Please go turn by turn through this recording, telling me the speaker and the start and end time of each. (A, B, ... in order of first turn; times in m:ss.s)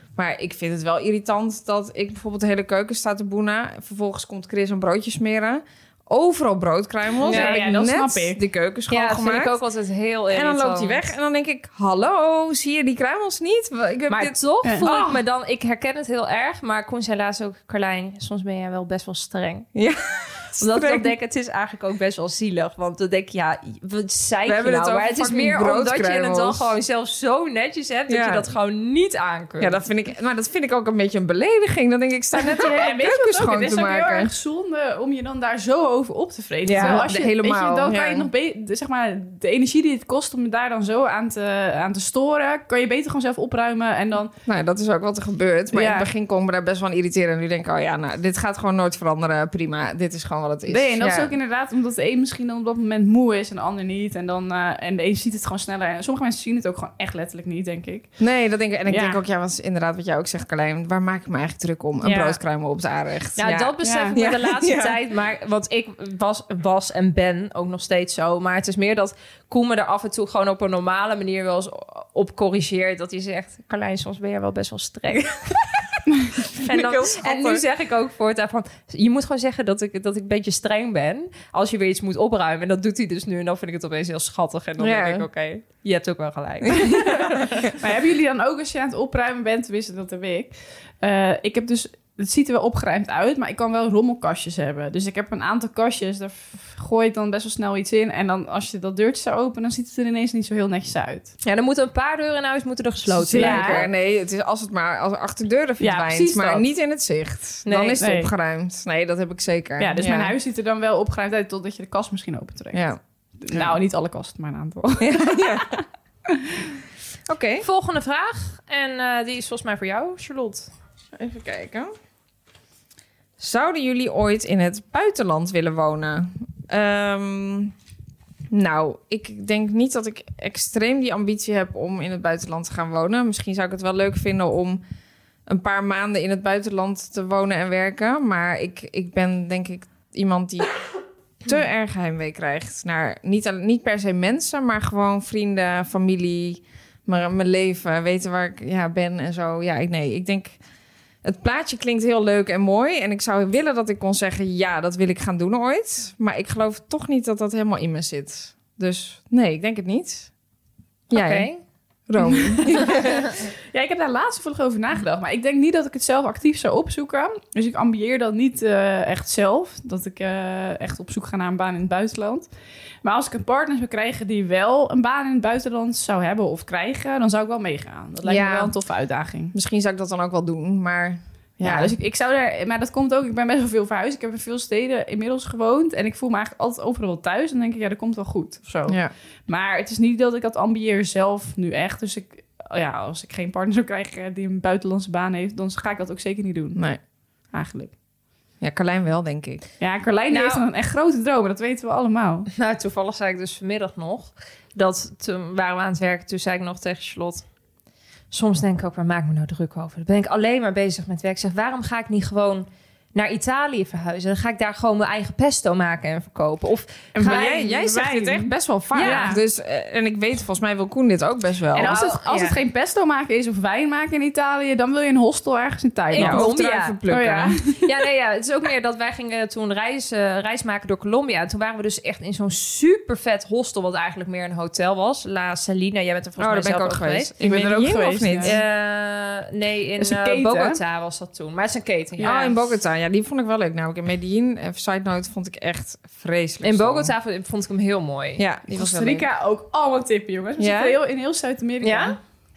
0:00.2-0:09.6 A
0:07.2-0:08.4 B
0:07.2-0:07.6 C
0:08.9-0:11.0 C
0:10.3-0:14.9 A
0:14.1-0:19.7 C
0:14.6-0:15.2 B
0:19.7-0:21.1 A
0:20.6-0:29.8 C
0:24.4-0:26.7 A
0:28.1-0:28.5 A
0:29.6-0:34.3 A
0:32.5-0:44.3 B
0:36.6-0:37.0 C
0:36.7-0:38.3 A
0:44.4-0:51.3 A
0:45.7-0:46.1 B
0:50.7-0:58.1 B
0:58.2-1:05.0 A
0:58.9-0:59.2 B
1:02.0-1:02.4 C
1:03.4-1:27.7 C
1:03.8-1:04.1 B
1:16.5-1:17.6 A
1:24.8-1:25.3 A
1:27.7-1:41.3 B
1:41.4-1:43.9 C
1:43.1-1:50.3 A
1:43.3-1:43.8 B
1:45.8-1:46.6 B
1:47.6-1:48.0 C
1:48.0-1:48.3 B
1:49.8-1:52.9 B
1:52.7-1:53.0 A
1:53.4-1:55.7 B
1:55.0-1:55.8 A
1:57.3-1:57.6 A
1:57.6-2:00.7 C
2:01.2-2:01.9 A
2:03.4-2:07.7 A
2:08.5-2:14.8 A
2:15.5-2:20.7 A
2:21.4-2:30.5 A
2:31.2-2:40.3 A
2:41.1-2:41.5 A
2:41.1-2:41.6 C
2:42.1-2:43.1 A
2:43.7-2:52.5 B
2:53.0-2:59.5 B
2:58.2-2:58.7 A
2:59.5-3:01.9 A
3:01.6-3:16.8 B
3:17.5-3:17.9 B
3:18.6-3:19.6 A
3:19.8-3:22.5 B
3:20.3-3:20.6 C
3:22.5-3:27.5 C
3:28.3-3:37.5 C
3:37.1-3:39.4 B
3:37.2-3:42.0 A
3:38.9-3:39.4 C
3:41.7-3:46.4 B
3:41.8-3:42.6 C
3:46.1-3:47.0 C
3:46.2-3:47.6 A
3:47.1-3:47.8 B
3:47.8-3:57.3 C
3:56.4-3:58.6 A
3:57.4-3:58.6 B
3:58.4-4:02.4 C
4:00.0-4:00.8 B
4:02.2-4:02.5 B
4:02.2-4:07.1 A
4:06.6-4:08.4 C
4:08.4-4:09.3 A
4:08.7-4:12.2 B
4:10.6-4:10.9 A
4:11.8-4:12.2 C